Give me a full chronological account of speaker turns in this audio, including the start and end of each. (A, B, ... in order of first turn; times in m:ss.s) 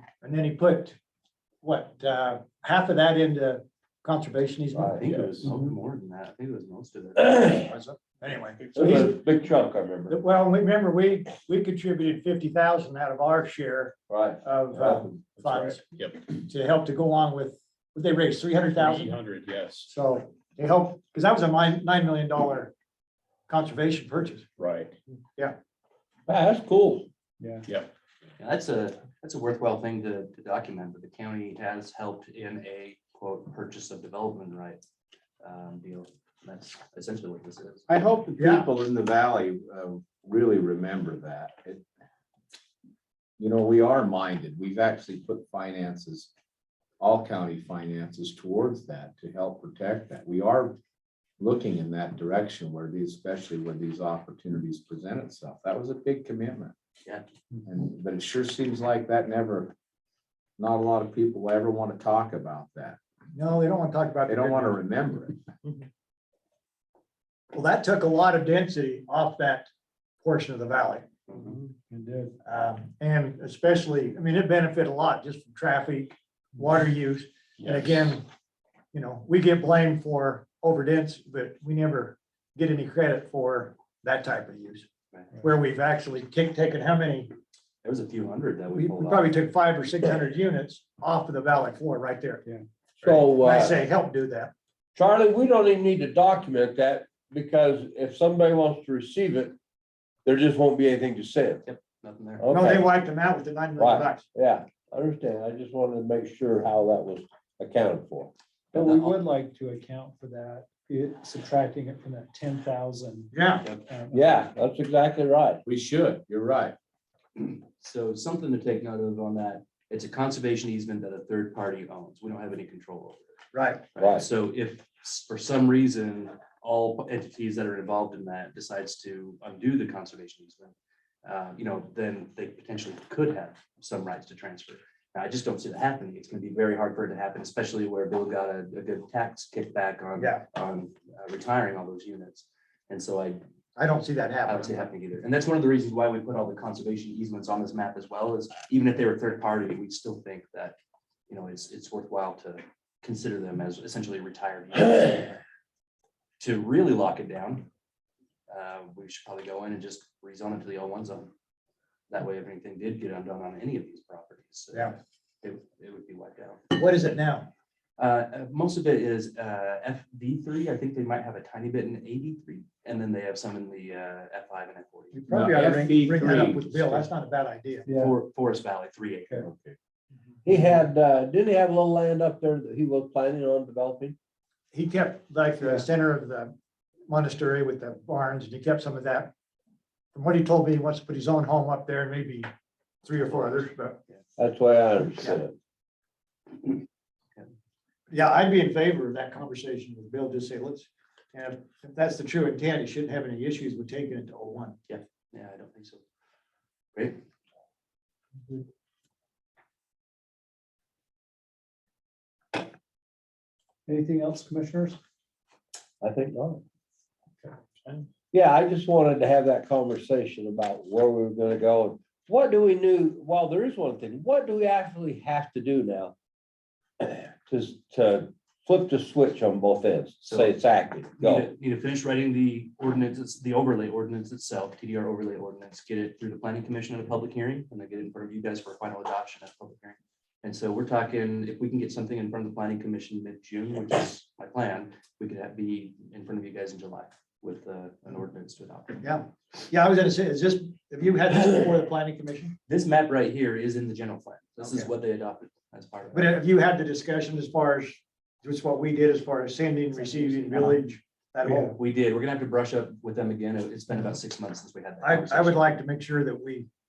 0:00.2-0:01.0 A
0:01.6-0:05.4 A
0:05.0-0:07.6 B
0:07.2-0:07.5 C
0:07.5-0:09.1 A
0:08.7-0:10.2 C
0:10.1-0:19.2 A
0:14.1-0:15.2 C
0:15.4-0:16.2 D
0:18.8-0:19.9 D
0:19.9-0:22.7 A
0:23.5-0:24.5 A
0:24.6-0:24.9 D
0:26.3-0:27.1 C
0:27.4-0:27.7 E
0:28.4-0:34.8 B
0:35.4-0:37.9 B
0:37.9-0:41.8 F
0:38.4-0:38.7 A
0:43.4-0:46.3 F
0:47.0-0:50.8 F
0:51.4-0:56.7 F
0:57.6-0:59.7 F
1:00.6-1:03.0 F
1:03.3-1:04.8 A
1:04.3-1:05.5 F
1:07.5-1:09.7 A
1:10.2-1:11.1 A
1:11.7-1:12.4 E
1:12.4-1:18.2 A
1:18.9-1:24.9 A
1:25.4-1:27.3 A
1:27.8-1:29.3 B
1:28.7-1:32.4 A
1:33.0-1:34.5 A
1:33.0-1:33.8 C
1:35.0-1:39.6 C
1:40.2-1:41.6 C
1:41.6-1:42.6 B
1:42.4-1:42.9 C
1:42.5-1:44.2 A
1:43.8-1:48.3 C
1:48.7-1:53.3 E
1:48.7-1:49.2 B
1:53.3-1:53.6 A
1:53.8-1:54.5 E
1:54.1-1:55.6 C
1:55.7-1:56.8 F
1:57.4-2:03.2 B
2:03.5-2:03.9 A
2:03.9-2:23.4 B
2:04.0-2:04.3 C
2:20.2-2:20.4 A
2:23.8-2:24.8 A
2:24.4-2:30.8 B
2:31.3-2:35.4 B
2:36.4-2:37.7 B
2:38.5-2:41.3 B
2:42.1-2:46.6 B
2:46.8-2:47.5 A
2:48.0-2:55.2 B
2:55.3-2:57.1 F
2:55.4-2:55.9 E
2:55.9-2:57.9 A
2:57.8-2:58.2 E
2:57.9-2:59.4 B
2:59.4-2:59.8 F
3:00.4-3:04.2 C
3:04.7-3:06.5 A
3:07.1-3:09.3 A
3:10.1-3:12.5 A
3:13.0-3:14.0 A
3:14.4-3:15.5 C
3:18.1-3:24.8 A
3:24.9-3:26.0 B
3:26.9-3:27.2 B
3:33.9-3:35.0 E
3:36.0-3:36.6 C
3:38.3-3:46.1 C
3:47.0-3:51.5 C
3:50.2-3:50.6 B
3:51.2-4:09.0 B
4:09.0-4:12.5 A
4:12.7-4:16.3 B
4:14.6-4:14.9 A
4:16.1-4:21.8 A
4:20.0-4:20.7 B
4:21.5-4:25.8 B
4:25.0-4:26.7 A